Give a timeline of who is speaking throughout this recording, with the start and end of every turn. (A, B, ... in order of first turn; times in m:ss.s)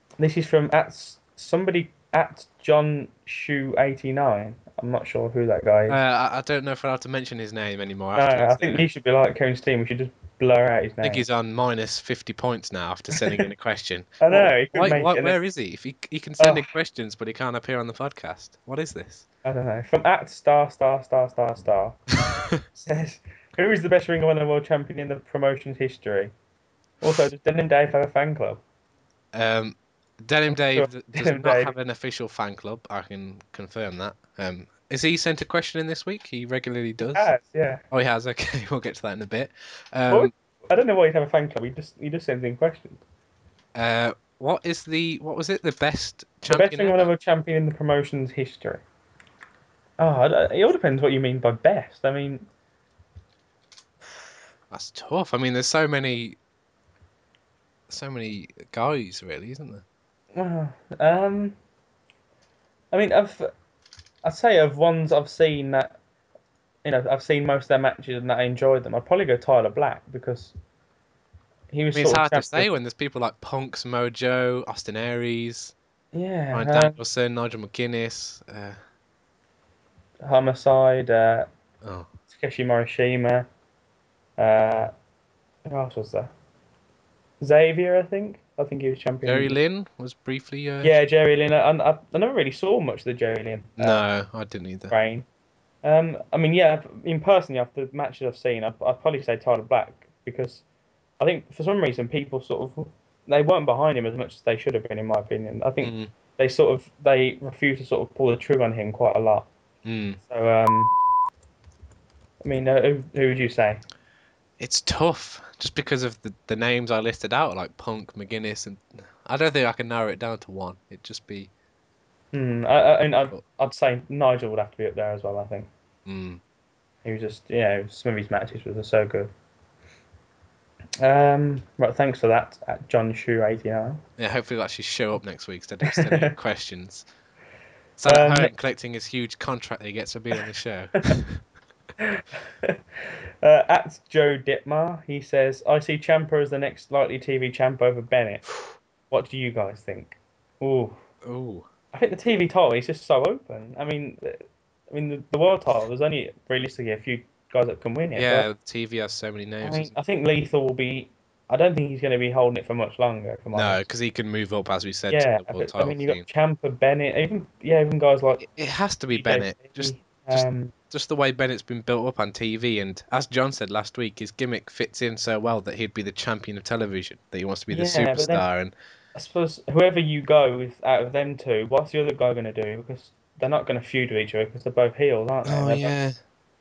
0:00.2-0:06.0 A
0:05.9-0:08.8 B
0:08.2-0:11.2 A
0:11.0-0:19.2 B
0:14.2-0:15.4 A
0:16.4-0:16.7 A
0:19.4-0:22.0 A
0:22.6-0:26.3 A
0:27.0-0:28.6 A
0:29.3-0:37.3 B
0:30.5-0:31.7 A
0:37.0-0:37.8 A
0:37.9-0:40.3 B
0:40.1-0:43.0 A
0:43.7-0:47.1 B
0:46.5-0:48.8 A
0:50.0-0:52.4 A
0:54.7-0:56.4 B
0:57.9-0:59.8 B
1:00.3-1:01.6 A
1:02.9-1:03.5 A
1:04.2-1:06.0 A
1:06.8-1:10.5 A
1:11.7-1:12.7 A
1:11.9-1:15.7 B
1:16.1-1:17.0 A
1:16.5-1:18.8 B
1:20.2-1:21.5 A
1:21.8-1:22.1 B
1:22.3-1:23.5 A
1:24.4-1:24.9 A
1:25.6-1:26.3 A
1:27.4-1:29.6 A
1:29.2-1:30.9 B
1:30.8-1:34.0 A
1:33.8-1:34.9 B
1:34.9-1:35.2 A
1:35.8-1:40.6 A
1:41.2-1:49.5 A
1:45.8-1:46.1 B
1:49.8-1:50.2 B
1:50.2-1:50.9 A
1:52.4-1:53.8 A
1:54.6-2:01.5 B
2:02.3-2:05.7 A
2:06.0-2:06.4 B
2:07.0-2:09.3 A
2:11.0-2:14.0 A
2:14.2-2:17.0 B
2:15.8-2:16.3 A
2:18.0-2:21.4 B
2:18.0-2:18.5 A
2:22.0-2:28.5 A
2:29.1-2:31.0 A
2:31.2-2:31.7 B
2:31.9-2:38.5 A
2:38.2-2:39.9 B
2:39.6-2:43.8 A
2:43.5-2:46.2 B
2:45.1-2:48.4 A
2:48.4-2:58.7 B
2:49.1-2:50.7 A
2:57.7-2:58.4 A
2:59.1-3:06.0 A
3:05.4-3:06.2 B